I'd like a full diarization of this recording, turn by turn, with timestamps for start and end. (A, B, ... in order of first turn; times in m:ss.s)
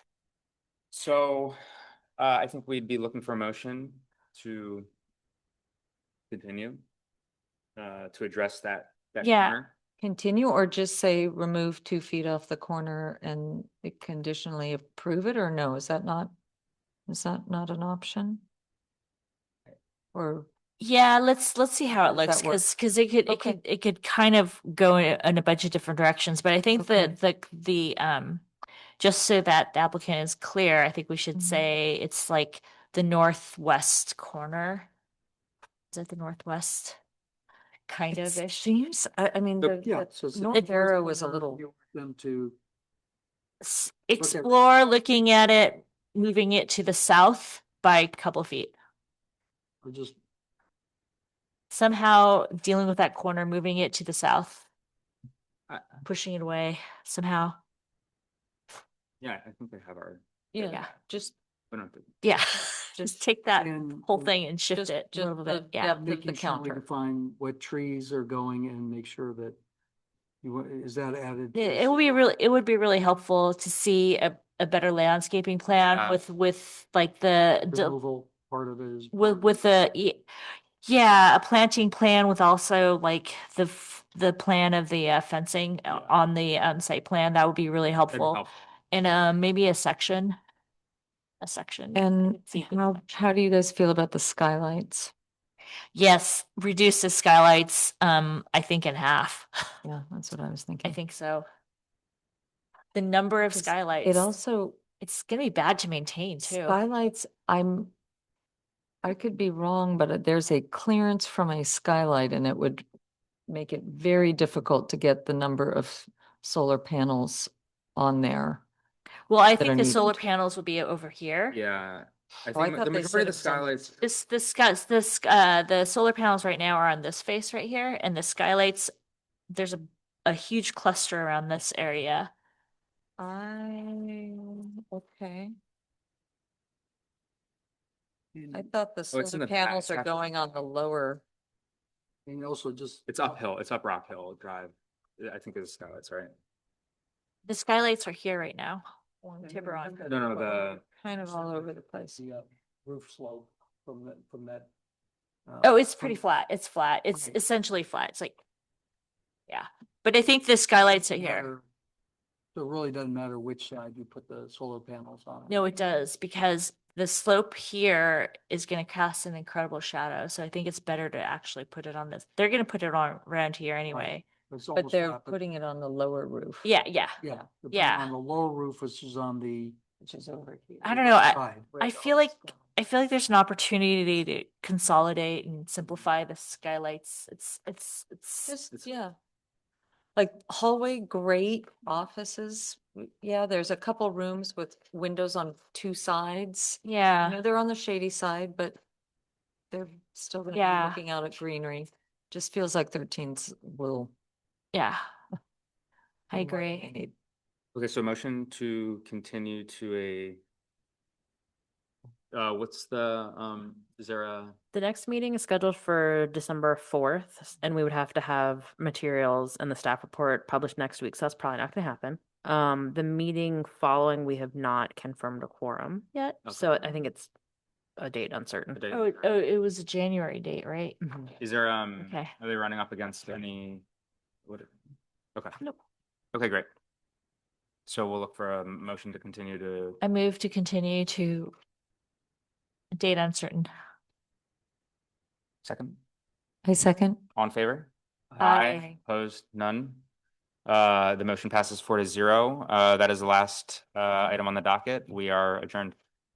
0:00.9-0:01.6 A
0:02.2-0:04.9 A
0:06.3-0:06.8 A
0:07.8-0:09.7 A
0:09.2-0:09.6 B
0:10.0-0:16.3 C
0:17.1-0:18.4 C
0:20.1-0:20.5 C
0:20.8-0:28.4 B
0:22.0-0:22.6 C
0:23.3-0:23.6 C
0:26.8-0:27.2 C
0:29.0-0:34.9 B
0:31.4-0:31.7 C
0:35.9-0:37.0 B
0:37.9-0:38.7 B
0:38.1-0:41.6 C
0:39.8-0:42.6 D
0:43.6-0:48.8 B
0:44.2-0:44.5 D
0:49.8-0:50.2 D
0:51.7-0:54.6 B
0:56.0-0:57.6 B
0:59.2-1:00.2 A
1:00.5-1:01.3 C
1:01.7-1:02.1 A
1:02.2-1:06.0 B
1:02.6-1:03.2 C
1:03.6-1:04.3 D
1:04.7-1:06.8 C
1:06.0-1:09.6 D
1:10.4-1:11.9 D
1:11.5-1:17.9 B
1:15.9-1:16.2 A
1:17.7-1:19.3 D
1:19.1-1:20.2 B
1:20.8-1:30.4 B
1:28.1-1:28.6 A
1:31.4-1:33.0 B
1:31.9-1:35.1 C
1:35.9-1:39.7 B
1:39.8-1:41.0 C
1:40.8-1:41.4 B
1:42.9-1:44.3 B
1:43.5-1:44.8 C
1:45.0-1:46.8 B
1:46.4-1:47.9 C
1:49.0-1:52.8 C
1:53.5-1:58.6 C
1:59.3-2:01.6 B
1:59.6-2:00.2 C
2:01.5-2:04.0 A
2:02.5-2:03.7 C
2:04.0-2:08.9 B
2:09.5-2:12.3 B
2:13.2-2:15.5 C
2:18.3-2:18.6 D
2:18.5-2:21.2 C
2:19.1-2:20.2 A
2:22.2-2:23.1 D
2:23.1-2:26.3 A
2:27.4-2:28.8 B
2:29.2-2:32.2 C
2:29.5-2:30.0 B
2:29.8-2:34.7 D
2:30.0-2:30.8 A
2:35.4-2:36.2 D
2:35.6-2:38.4 B
2:39.5-2:41.5 B
2:41.1-2:41.6 D
2:42.5-2:45.6 D
2:45.5-2:54.2 B
2:53.9-2:55.4 D
2:54.7-2:56.7 C
2:56.6-2:57.2 B
2:57.2-2:59.8 D
2:57.7-2:58.1 B
3:00.0-3:01.2 C
3:00.8-3:08.5 B
3:01.2-3:01.7 D
3:01.7-3:02.6 C
3:08.5-3:09.1 C
3:10.2-3:18.8 C
3:16.8-3:17.4 B
3:19.7-3:24.1 C
3:20.5-3:21.0 B
3:24.7-3:25.0 B
3:26.3-3:26.9 B
3:26.3-3:27.1 C
3:27.7-3:30.4 A
3:32.3-3:34.6 A
3:34.7-3:47.3 E
3:46.4-3:46.7 A
3:48.0-3:48.8 E
3:48.7-3:49.0 A
3:48.9-3:51.0 B
3:51.0-3:51.3 E
3:51.4-3:53.8 A
3:52.0-3:52.3 B
3:56.3-3:56.7 A
3:57.9-4:00.0 A
4:00.0-4:01.5 B
4:02.9-4:03.7 B
4:05.6-4:06.0 A
4:06.6-4:07.2 C
4:07.4-4:10.0 A
4:08.3-4:08.8 D
4:08.4-4:08.9 B
4:10.6-4:15.9 A